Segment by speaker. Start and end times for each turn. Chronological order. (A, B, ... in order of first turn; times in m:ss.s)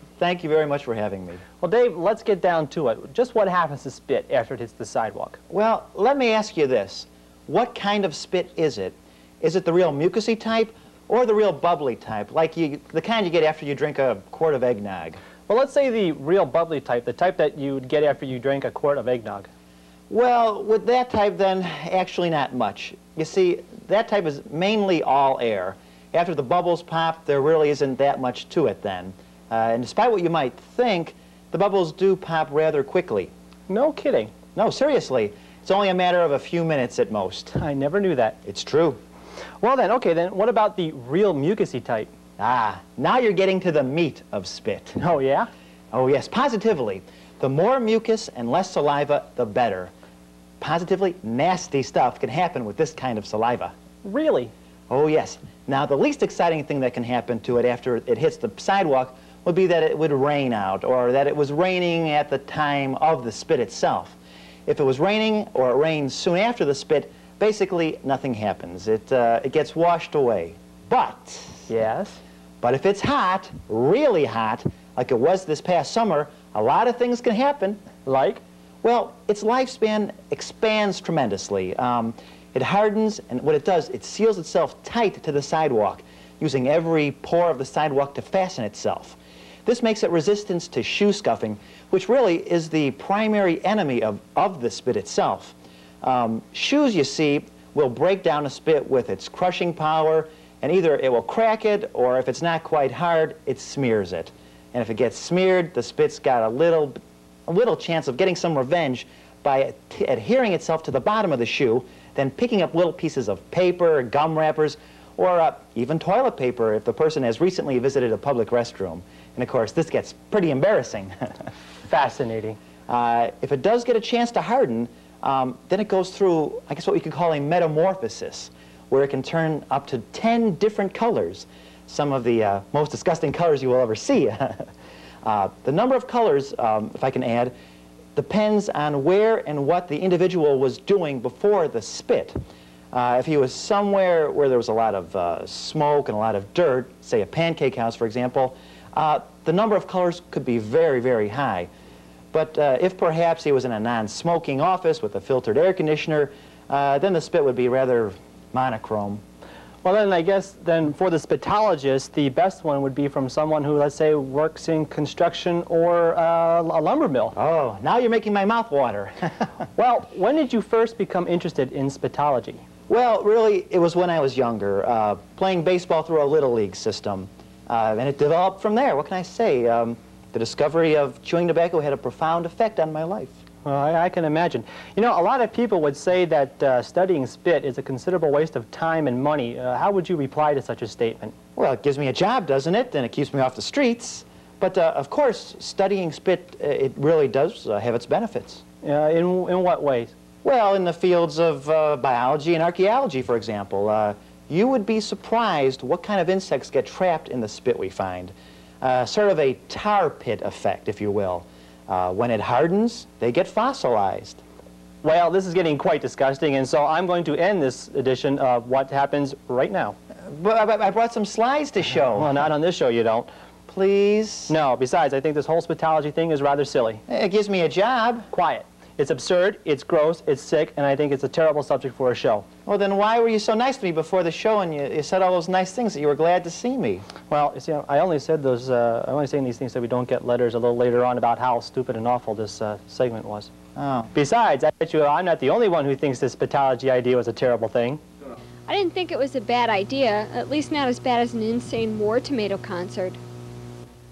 0:00.2-0:01.4 A
0:01.6-0:05.4 B
0:05.5-0:15.2 A
0:15.5-0:19.5 B
0:20.1-0:33.3 A
0:33.7-0:34.3 B
0:34.5-0:37.5 A
0:37.5-0:38.4 B
0:38.4-0:39.0 A
0:39.6-0:42.1 B
0:42.4-0:45.0 A
0:45.0-0:45.5 B
0:45.9-0:49.9 A
0:50.6-0:53.7 A
0:54.0-0:54.5 B
0:54.9-1:11.7 A
1:11.7-1:12.2 B
1:12.6-1:17.8 A
1:18.0-1:18.4 B
1:18.8-2:01.3 A
2:01.8-2:02.6 B
2:02.9-2:14.7 A
2:15.2-2:17.5 A
2:18.1-2:22.3 A
2:22.9-2:31.7 A
2:32.3-2:39.2 A
2:39.8-2:47.3 B
2:47.4-2:49.5 A
2:49.8-2:52.6 B
2:52.9-3:03.4 A
3:03.6-3:11.3 B
3:11.6-3:18.6 A
3:18.8-3:20.1 B
3:20.4-3:34.4 A
3:35.0-3:40.0 B
3:40.3-3:42.3 A
3:42.1-3:43.3 B
3:43.7-3:44.5 A
3:44.5-3:47.0 B
3:47.1-3:48.3 A
3:48.3-3:52.4 B
3:52.6-3:57.1 A
3:57.3-4:03.5 B
4:03.8-4:04.1 A
4:04.1-4:08.0 B
4:08.7-4:13.2 C